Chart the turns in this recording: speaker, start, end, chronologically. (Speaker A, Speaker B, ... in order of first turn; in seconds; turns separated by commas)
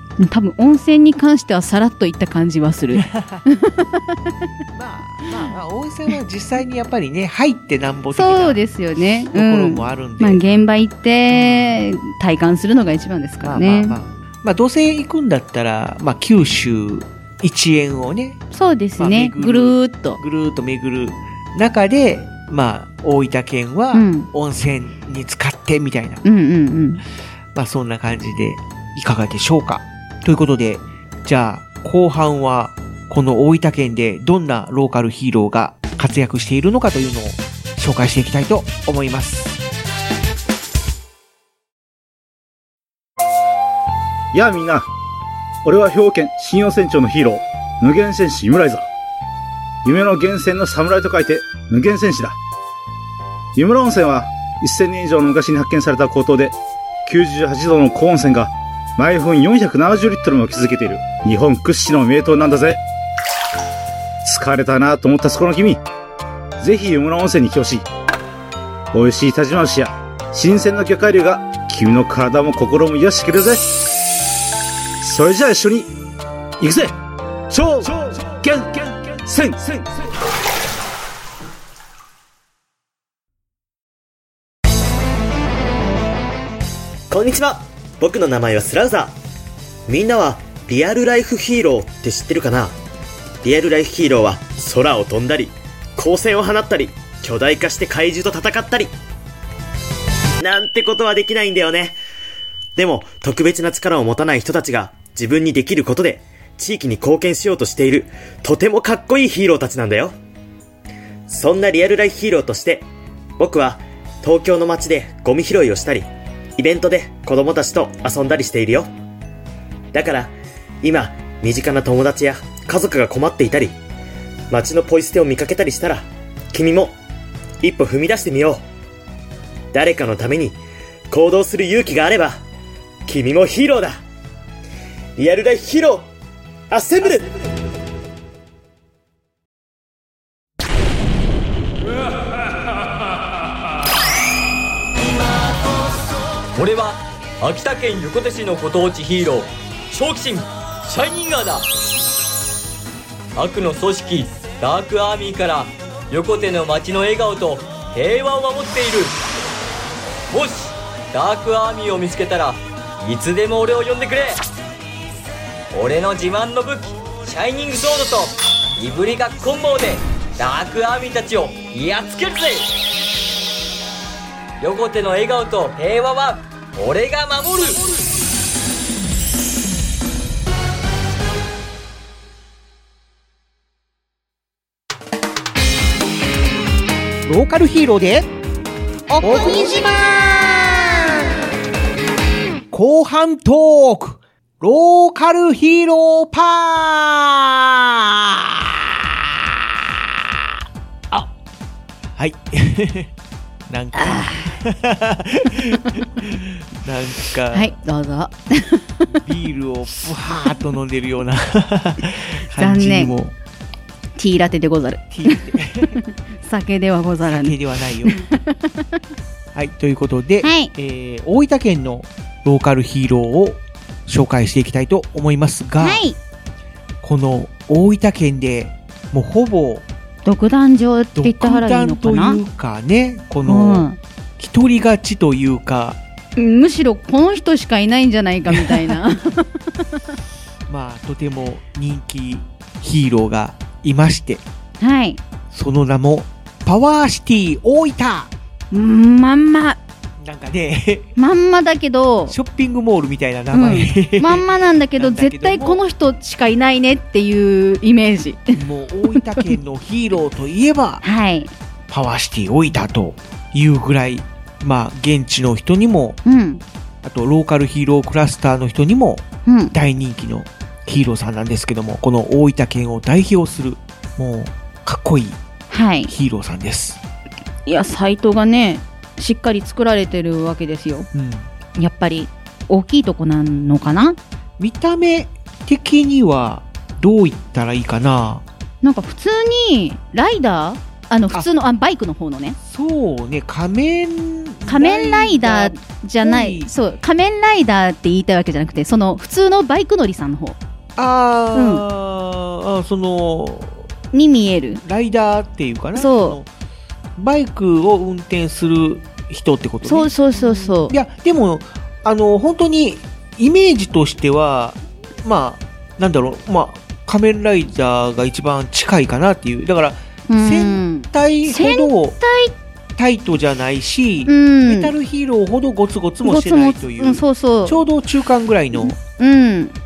Speaker A: 0.2-4.0, Speaker B: 3.0-3.4, Speaker B: 4.7-8.6, Speaker A: 8.1-14.0, Speaker B: 9.3-10.4, Speaker B: 11.3-11.8, Speaker B: 13.4-18.4, Speaker A: 18.5-20.2, Speaker B: 19.0-26.2, Speaker A: 23.9-24.3, Speaker A: 26.2-27.0, Speaker B: 27.5-39.6, Speaker C: 44.3-44.9, Speaker C: 45.6-48.9, Speaker C: 49.8-52.4, Speaker C: 53.5-62.8, Speaker C: 64.2-65.8, Speaker C: 66.6-67.8, Speaker C: 68.9-73.6, Speaker C: 75.0-75.9, Speaker C: 76.6-76.9, Speaker C: 77.5-79.9, Speaker D: 87.1-89.1, Speaker D: 89.9-92.7, Speaker D: 93.4-98.9, Speaker D: 100.4-102.0, Speaker D: 102.8-110.1, Speaker D: 111.3-112.9, Speaker D: 113.4-116.0, Speaker D: 116.6-118.9, Speaker D: 119.9-123.8, Speaker D: 124.5-127.0, Speaker D: 127.6-128.6, Speaker D: 129.7-130.6, Speaker D: 131.1-132.4, Speaker D: 133.1-134.0, Speaker D: 135.2-136.1, Speaker D: 136.7-137.3, Speaker E: 146.5-151.7, Speaker E: 153.3-159.2, Speaker E: 160.3-164.4, Speaker E: 165.7-172.7, Speaker E: 174.6-177.8, Speaker B: 187.2-188.3, Speaker B: 189.1-191.3, Speaker B: 192.7-198.8, Speaker B: 202.2-203.1, Speaker B: 203.7-207.7, Speaker A: 204.0-204.4, Speaker A: 207.5-209.1, Speaker B: 209.1-213.3, Speaker A: 212.6-213.1, Speaker A: 214.2-215.4, Speaker B: 215.1-216.0, Speaker A: 216.4-217.6, Speaker B: 217.2-218.2, Speaker A: 218.1-218.6, Speaker B: 219.5-226.0, Speaker A: 220.4-220.7, Speaker A: 225.8-226.2, Speaker B: 227.0-229.8, Speaker A: 230.2-232.4, Speaker B: 231.1-236.0, Speaker A: 233.4-234.0, Speaker A: 236.4-239.4, Speaker B: 238.5-239.0, Speaker B: 240.7-244.4, Speaker A: 244.8-245.2, Speaker B: 245.5-248.3, Speaker A: 248.7-249.8, Speaker B: 250.2-251.1, Speaker A: 251.2-252.3, Speaker B: 252.3-255.8, Speaker A: 253.5-258.5, Speaker B: 258.5-261.0, Speaker A: 261.0-261.5, Speaker B: 261.9-266.2, Speaker A: 266.2-266.6, Speaker B: 267.0-275.4, Speaker A: 269.4-269.7, Speaker A: 275.7-276.1, Speaker B: 276.1-277.0, Speaker A: 277.6-281.1, Speaker B: 281.1-281.5, Speaker A: 281.8-284.2, Speaker B: 284.6-288.4, Speaker A: 288.8-292.6, Speaker B: 292.6-296.7, Speaker A: 294.6-300.6, Speaker B: 300.9-303.9, Speaker A: 301.5-301.8, Speaker A: 304.1-304.8, Speaker B: 304.8-306.5, Speaker A: 305.9-306.4, Speaker B: 307.2-322.2, Speaker A: 309.8-310.9, Speaker A: 320.3-322.5, Speaker B: 323.0-329.0, Speaker A: 324.3-324.9, Speaker A: 326.2-327.8, Speaker A: 328.7-329.7